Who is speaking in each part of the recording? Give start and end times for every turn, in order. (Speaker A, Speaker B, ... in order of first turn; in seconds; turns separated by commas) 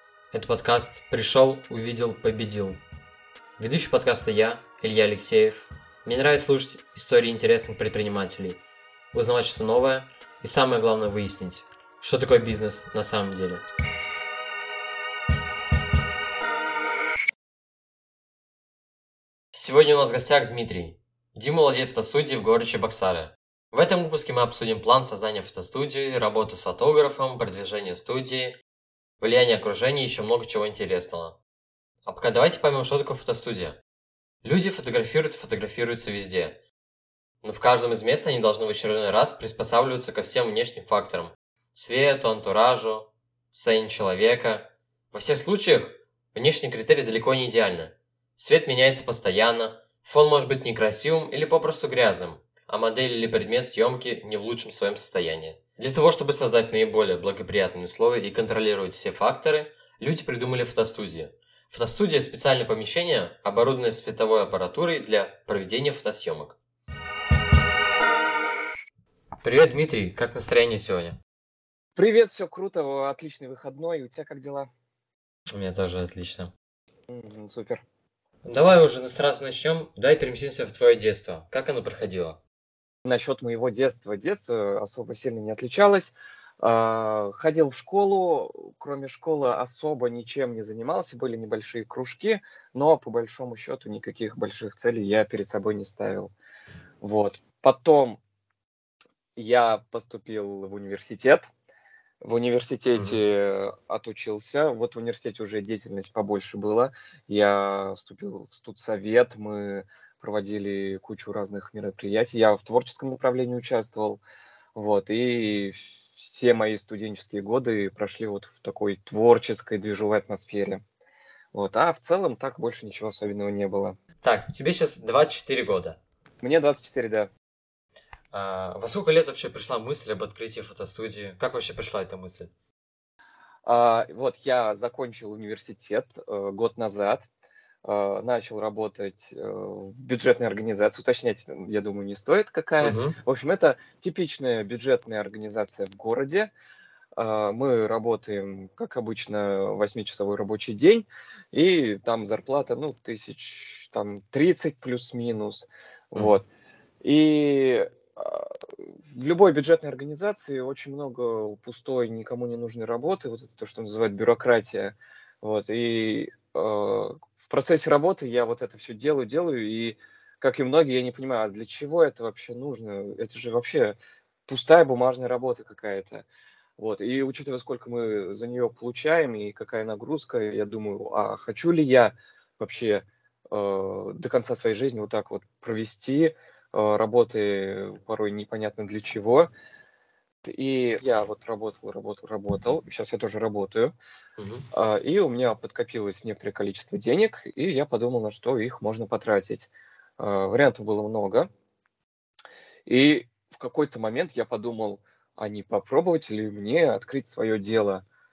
Speaker A: 0.3-2.8, Speaker A: 3.6-8.6, Speaker A: 9.1-13.7, Speaker A: 19.5-28.6, Speaker A: 29.2-31.4, Speaker A: 32.0-33.8, Speaker A: 34.4-36.6, Speaker A: 37.4-66.6, Speaker A: 69.4-71.2, Speaker B: 72.0-74.7, Speaker A: 75.5-76.5, Speaker B: 77.1-77.8, Speaker A: 78.4-82.4, Speaker B: 83.0-96.3, Speaker B: 97.0-98.2, Speaker B: 99.3-101.5, Speaker B: 102.2-114.2, Speaker B: 114.7-120.8, Speaker B: 121.5-124.0, Speaker A: 124.2-126.0, Speaker B: 126.4-127.3, Speaker A: 128.3-132.5, Speaker B: 133.6-137.3, Speaker B: 137.8-146.5, Speaker A: 142.8-143.2, Speaker B: 147.2-156.5, Speaker B: 157.0-176.2, Speaker B: 176.8-189.5, Speaker B: 190.4-193.9, Speaker A: 194.4-194.7, Speaker B: 194.7-201.5, Speaker B: 202.9-208.0